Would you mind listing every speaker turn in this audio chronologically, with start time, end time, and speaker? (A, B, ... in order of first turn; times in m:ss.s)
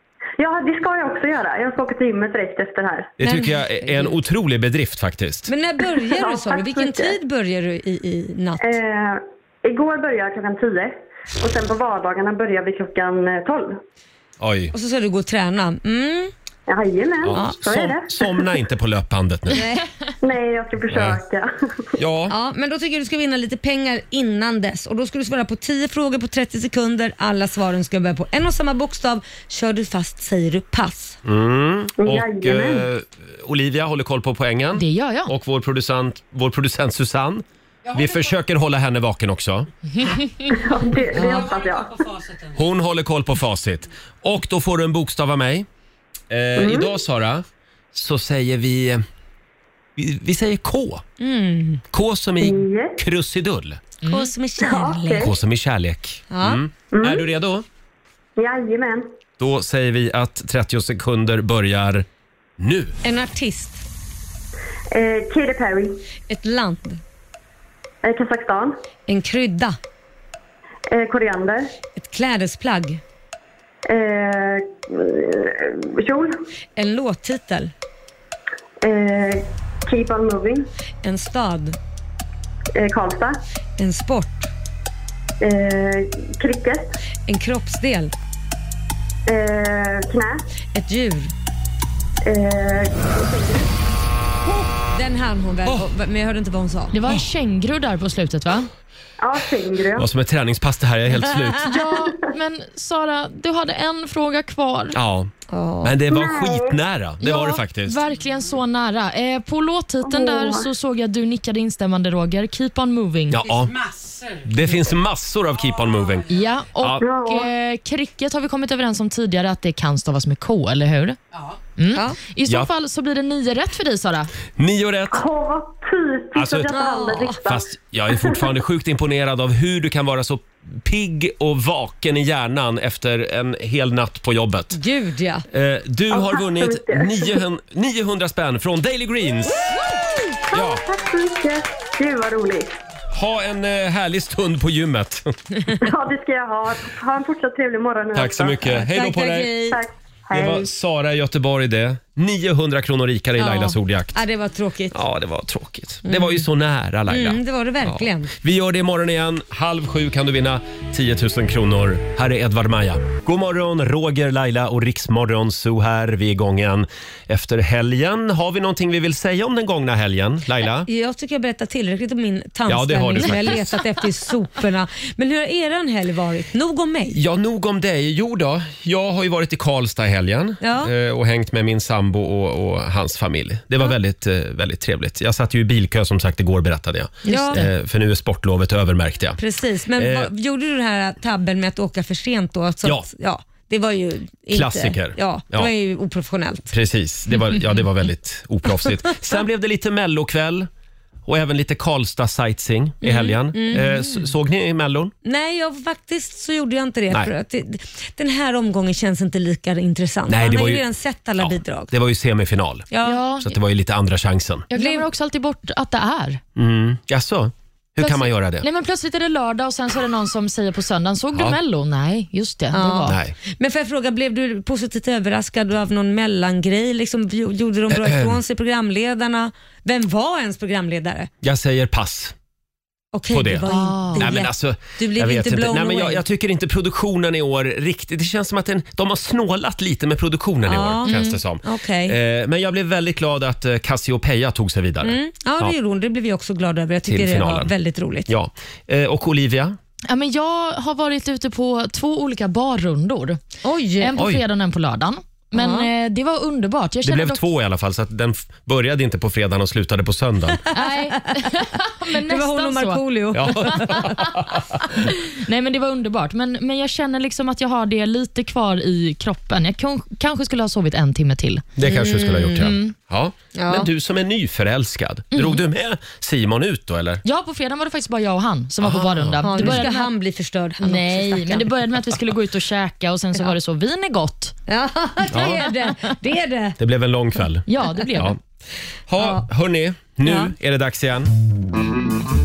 0:00.4-0:03.1 A
0:03.2-0:05.5 B
0:03.2-0:04.1 C
0:05.5-0:08.6 C
0:06.1-0:07.2 A
0:08.6-0:13.8 A
0:14.4-0:14.7 B
0:14.7-0:16.3 C
0:16.7-0:18.5 A
0:17.2-0:19.6 B
0:19.5-0:19.8 C
0:20.2-0:21.5 A
0:20.9-0:21.2 B
0:22.0-0:22.3 B
0:22.3-0:31.2 C
0:31.2-0:39.7 B
0:32.0-0:32.9 A
0:34.8-0:35.3 D
0:40.5-0:42.0 A
0:42.5-0:45.7 B
0:46.3-0:49.0 B
0:46.6-0:46.9 A
0:50.0-0:51.0 B
0:51.2-0:51.8 C
0:51.9-0:53.8 B
0:52.4-0:53.0 A
0:54.0-0:54.3 D
0:54.1-0:55.3 C
0:54.6-0:55.3 A
0:55.2-0:57.7 B
0:56.3-0:56.6 C
0:56.9-0:57.3 A
0:58.4-0:59.1 A
0:59.4-1:02.1 B
1:02.6-1:03.0 B
1:03.0-1:03.8 C
1:04.9-1:06.0 A
1:06.3-1:07.0 C
1:08.0-1:08.8 A
1:09.1-1:09.8 C
1:10.9-1:11.7 A
1:12.0-1:13.0 C
1:13.9-1:16.4 A
1:16.8-1:17.7 C
1:18.8-1:20.7 A
1:21.0-1:21.8 C
1:22.7-1:23.4 A
1:23.8-1:24.5 C
1:25.4-1:26.9 A
1:27.3-1:28.1 C
1:29.3-1:30.4 A
1:30.7-1:31.3 C
1:32.2-1:33.7 A
1:34.9-1:36.9 C
1:36.9-1:38.7 D
1:39.2-1:40.1 A
1:40.0-1:41.7 B
1:41.6-1:45.0 D
1:44.9-1:45.3 B
1:45.5-1:46.0 C
1:45.8-1:48.0 B
1:46.1-1:46.7 A
1:47.2-1:53.5 D
1:50.0-1:50.7 A
1:53.3-1:57.0 B
1:56.3-2:01.2 D
1:57.0-1:57.5 A
2:01.8-2:04.3 D
2:04.6-2:05.3 B
2:05.1-2:08.4 A
2:06.4-2:06.7 B
2:06.7-2:07.4 C
2:07.4-2:14.8 B
2:14.7-2:15.4 C
2:15.5-2:19.8 B
2:16.1-2:17.4 A
2:20.5-2:20.8 B
2:20.5-2:22.7 A
2:23.1-2:25.4 B
2:25.8-2:28.8 A
2:28.1-2:29.5 B
2:28.9-2:29.8 C
2:29.7-2:30.7 A
2:30.3-2:34.2 B
2:33.4-2:35.0 C
2:34.9-2:50.9 B
2:36.0-2:36.4 C
2:37.1-2:38.3 C
2:50.9-2:57.2 C
2:52.7-2:53.8 B
2:57.1-3:09.4 B
3:00.6-3:00.9 C
3:07.2-3:07.7 D
3:07.3-3:07.6 C
3:09.4-3:16.7 C
3:10.0-3:10.3 B
3:14.5-3:15.7 B
3:16.7-3:20.7 B
3:21.3-3:25.1 B
3:23.0-3:24.0 C
3:25.2-3:31.9 C
3:30.3-3:30.8 B
3:31.4-3:34.7 B
3:32.9-3:33.2 C
3:33.0-3:33.5 D
3:34.7-3:36.4 D
3:34.8-3:35.1 C
3:36.6-3:38.7 B
3:38.0-3:43.2 D
3:42.7-3:51.3 C
3:43.1-3:43.4 B
3:47.9-3:48.4 B
3:51.4-3:52.4 B
3:53.1-3:56.2 C
3:53.3-4:05.8 B
3:53.7-3:54.3 D
4:00.7-4:02.2 C
4:01.1-4:01.3 D
4:05.0-4:08.3 C
4:07.1-4:07.7 B
4:08.3-4:09.8 B
4:10.1-4:13.4 D
4:13.6-4:14.2 C
4:14.0-4:17.4 D
4:14.2-4:14.4 B
4:15.6-4:15.9 C
4:17.0-4:20.6 B
4:20.7-4:21.5 C
4:20.7-4:24.1 D
4:22.1-4:24.2 C
4:23.3-4:24.8 B
4:25.3-4:31.7 D
4:31.8-4:37.2 B
4:31.8-4:32.7 C
4:32.6-4:32.9 D
4:33.6-4:33.9 C
4:35.3-4:35.6 D
4:37.2-4:40.1 D
4:38.8-4:39.8 B
4:39.4-4:41.7 C
4:40.8-4:44.6 D
4:44.7-4:46.8 C
4:45.3-4:45.6 B
4:45.4-4:46.1 D
4:46.8-4:48.4 B
4:47.7-4:48.4 D
4:49.1-4:51.3 B
4:49.2-4:49.4 C
4:50.2-4:50.5 C